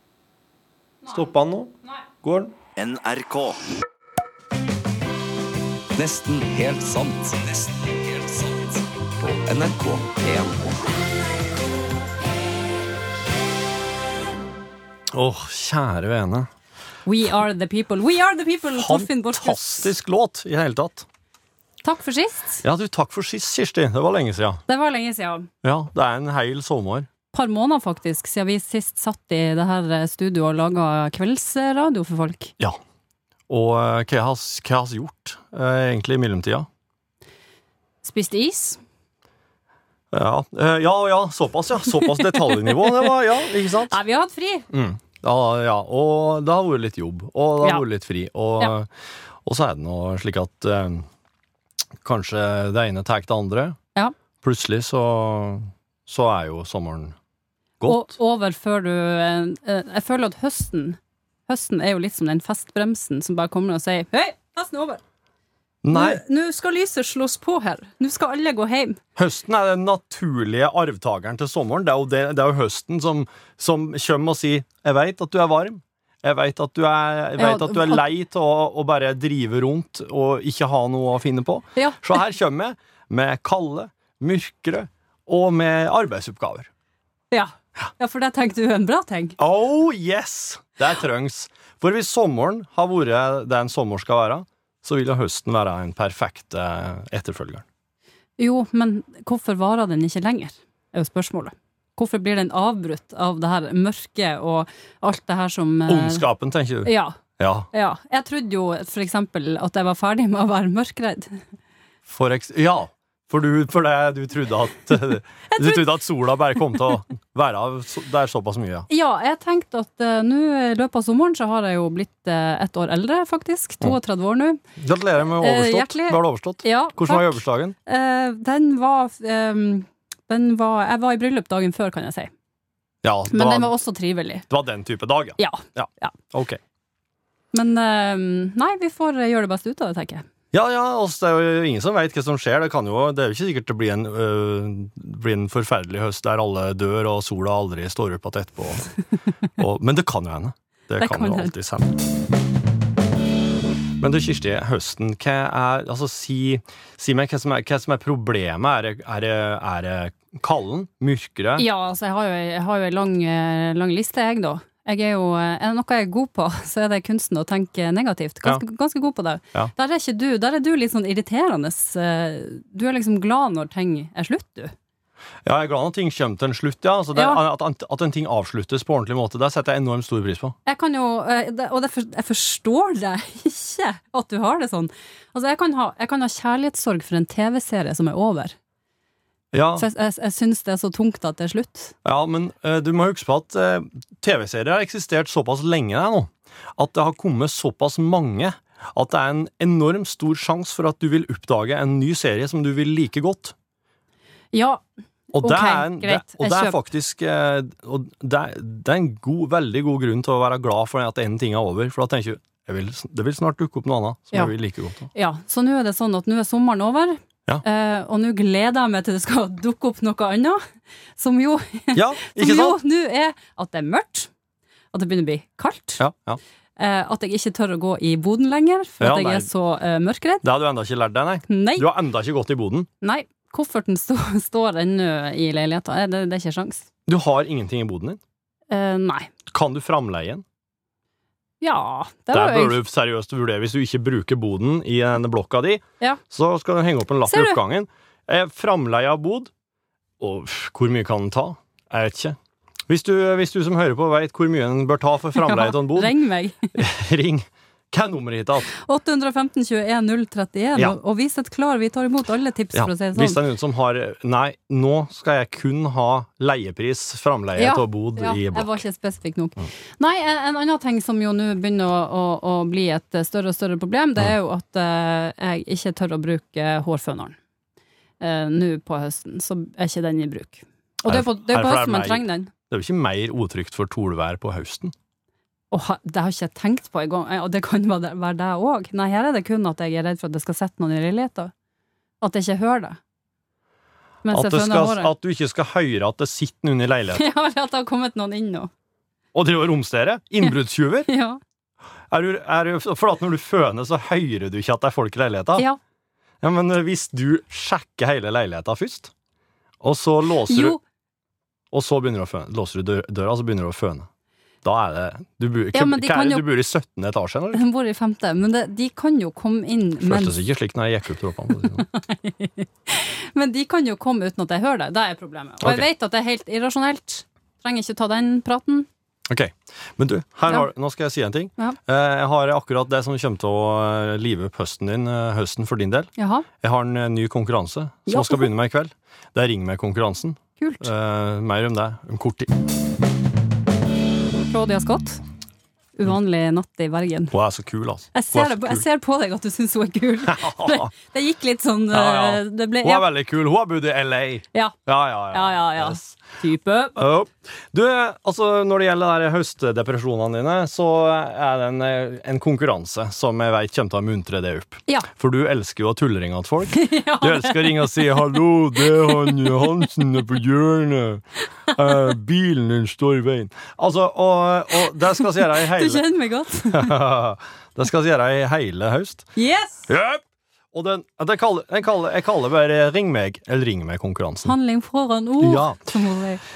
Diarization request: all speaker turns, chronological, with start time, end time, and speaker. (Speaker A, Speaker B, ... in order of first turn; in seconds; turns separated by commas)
Speaker A: 1.1-1.7, Speaker A: 2.2-2.5, Speaker B: 2.8-3.6, Speaker B: 6.0-10.8, Speaker A: 15.1-16.5, Speaker C: 17.1-19.9, Speaker A: 18.7-21.1, Speaker C: 21.8-22.6, Speaker A: 22.6-24.6, Speaker C: 24.7-25.5, Speaker A: 25.6-27.1, Speaker C: 27.3-32.5, Speaker A: 33.5-36.7, Speaker C: 38.0-38.8, Speaker A: 40.1-44.0, Speaker C: 42.5-43.1, Speaker C: 43.9-44.7, Speaker A: 44.7-48.9, Speaker A: 49.5-51.1, Speaker A: 52.0-53.8, Speaker A: 54.4-57.2, Speaker A: 57.8-58.1, Speaker C: 57.9-65.0, Speaker A: 65.8-66.2, Speaker C: 65.9-69.0, Speaker A: 69.2-86.7, Speaker C: 77.4-78.0, Speaker C: 81.8-82.2, Speaker C: 87.3-89.4, Speaker A: 89.4-97.7, Speaker C: 98.4-106.2, Speaker A: 105.9-107.7, Speaker C: 106.8-107.2, Speaker C: 107.7-111.4, Speaker A: 112.1-118.9, Speaker C: 115.5-115.9, Speaker C: 118.9-124.6, Speaker A: 124.8-127.8, Speaker C: 125.4-132.3, Speaker A: 133.0-133.7, Speaker C: 133.3-134.5, Speaker A: 134.5-136.6, Speaker C: 135.4-136.2, Speaker C: 137.5-140.2, Speaker A: 140.5-148.9, Speaker A: 149.6-152.0, Speaker C: 151.0-151.5, Speaker A: 154.0-161.7, Speaker C: 161.6-174.7, Speaker A: 175.4-180.6, Speaker C: 177.2-177.4, Speaker C: 180.7-188.6, Speaker A: 189.5-189.8, Speaker C: 189.8-191.9, Speaker A: 192.1-203.6, Speaker C: 204.5-204.8, Speaker A: 205.3-215.1, Speaker C: 205.4-206.8, Speaker C: 215.1-220.6, Speaker C: 221.2-224.3, Speaker A: 221.9-222.8, Speaker C: 224.9-226.0, Speaker A: 226.0-226.4, Speaker C: 226.8-230.4, Speaker A: 229.0-229.5, Speaker A: 230.4-232.9, Speaker C: 231.5-231.9, Speaker C: 233.0-236.9, Speaker A: 237.1-238.2, Speaker C: 238.7-239.3, Speaker A: 239.5-240.4, Speaker C: 241.6-242.8, Speaker A: 242.3-249.5, Speaker C: 247.3-247.6, Speaker A: 250.2-252.4, Speaker A: 252.9-256.1, Speaker C: 255.4-256.8, Speaker A: 256.8-258.7, Speaker C: 258.7-263.4, Speaker A: 262.8-268.8, Speaker C: 267.6-277.4, Speaker C: 278.2-282.5, Speaker A: 281.1-284.9, Speaker C: 285.7-291.5, Speaker C: 292.2-293.0, Speaker C: 294.2-295.1, Speaker A: 294.3-297.2, Speaker C: 297.1-298.7, Speaker A: 299.3-301.1, Speaker C: 301.1-301.4, Speaker A: 302.1-305.7, Speaker A: 306.4-309.1, Speaker A: 309.8-310.8, Speaker C: 310.5-310.8, Speaker A: 311.7-314.1, Speaker A: 314.6-317.6, Speaker C: 315.7-316.5, Speaker C: 317.5-320.4, Speaker A: 320.0-321.9, Speaker C: 321.8-328.9, Speaker A: 325.6-325.9, Speaker A: 329.3-342.5, Speaker C: 336.2-336.5, Speaker C: 338.1-338.5, Speaker C: 340.6-340.9, Speaker C: 344.5-345.2, Speaker C: 346.0-347.4, Speaker A: 347.3-348.8, Speaker C: 348.1-353.1, Speaker A: 350.3-350.9, Speaker A: 351.9-356.2, Speaker C: 355.3-357.0, Speaker A: 357.0-376.0, Speaker C: 366.7-368.2, Speaker C: 368.8-369.7, Speaker C: 371.7-372.0, Speaker C: 375.4-376.9, Speaker A: 376.7-379.3, Speaker C: 379.4-379.9, Speaker A: 379.9-384.6, Speaker C: 384.4-386.4, Speaker A: 385.4-385.8